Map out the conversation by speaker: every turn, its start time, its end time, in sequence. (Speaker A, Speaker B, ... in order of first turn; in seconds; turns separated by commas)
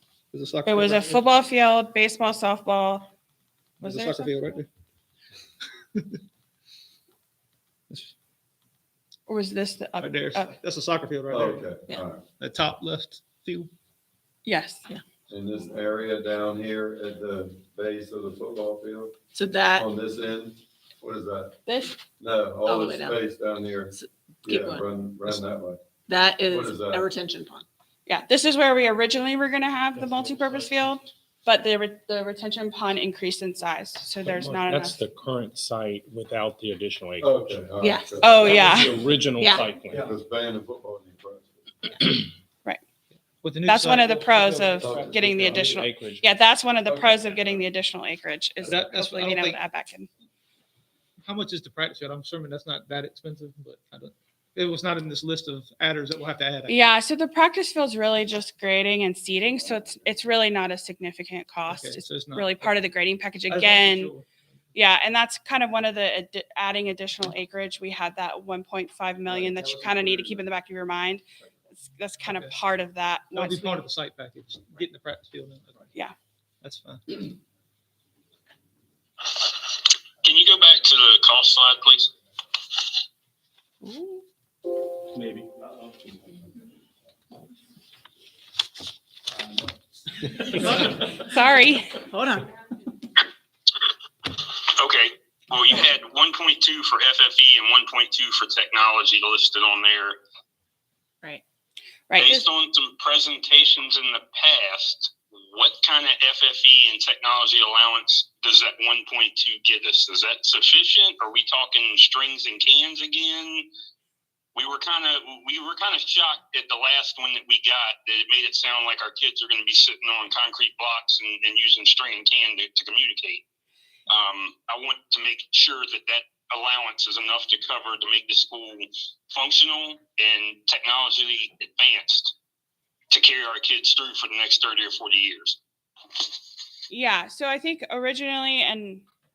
Speaker A: 0.3-1.2, Speaker B: 0.7-3.1, Speaker A: 3.8-4.7, Speaker B: 3.8-4.4, Speaker B: 9.3-10.6, Speaker A: 10.0-11.7, Speaker C: 11.3-12.2, Speaker A: 12.4-13.7, Speaker B: 14.4-14.8, Speaker C: 15.3-19.1, Speaker D: 19.3-19.9, Speaker C: 19.7-21.6, Speaker B: 21.6-22.0, Speaker C: 22.2-23.9, Speaker D: 22.6-23.2, Speaker D: 23.9-24.9, Speaker C: 24.4-25.8, Speaker D: 26.1-27.6, Speaker C: 26.4-27.1, Speaker B: 28.1-35.0, Speaker E: 34.2-37.6, Speaker C: 37.2-39.1, Speaker D: 37.8-38.8, Speaker B: 38.2-38.9, Speaker E: 38.7-40.1, Speaker D: 39.4-39.7, Speaker C: 39.9-41.7, Speaker A: 43.4-45.8, Speaker B: 43.6-50.1, Speaker C: 44.8-45.8, Speaker E: 45.8-46.2, Speaker A: 48.6-49.6, Speaker A: 51.2-56.8, Speaker B: 56.7-64.1, Speaker A: 61.7-62.8, Speaker A: 63.5-64.3, Speaker B: 64.7-71.2, Speaker A: 69.3-70.5, Speaker B: 71.8-73.8, Speaker A: 72.2-72.5, Speaker A: 73.3-75.9, Speaker A: 76.6-77.2, Speaker F: 79.3-79.7, Speaker F: 80.2-82.1, Speaker B: 83.8-84.2, Speaker E: 85.1-85.5, Speaker B: 91.2-92.0, Speaker D: 92.1-92.5, Speaker F: 94.2-100.2, Speaker B: 102.1-102.5, Speaker F: 102.2-113.7, Speaker F: 114.5-123.4, Speaker F: 124.1-132.3, Speaker F: 133.1-135.6, Speaker B: 136.9-139.0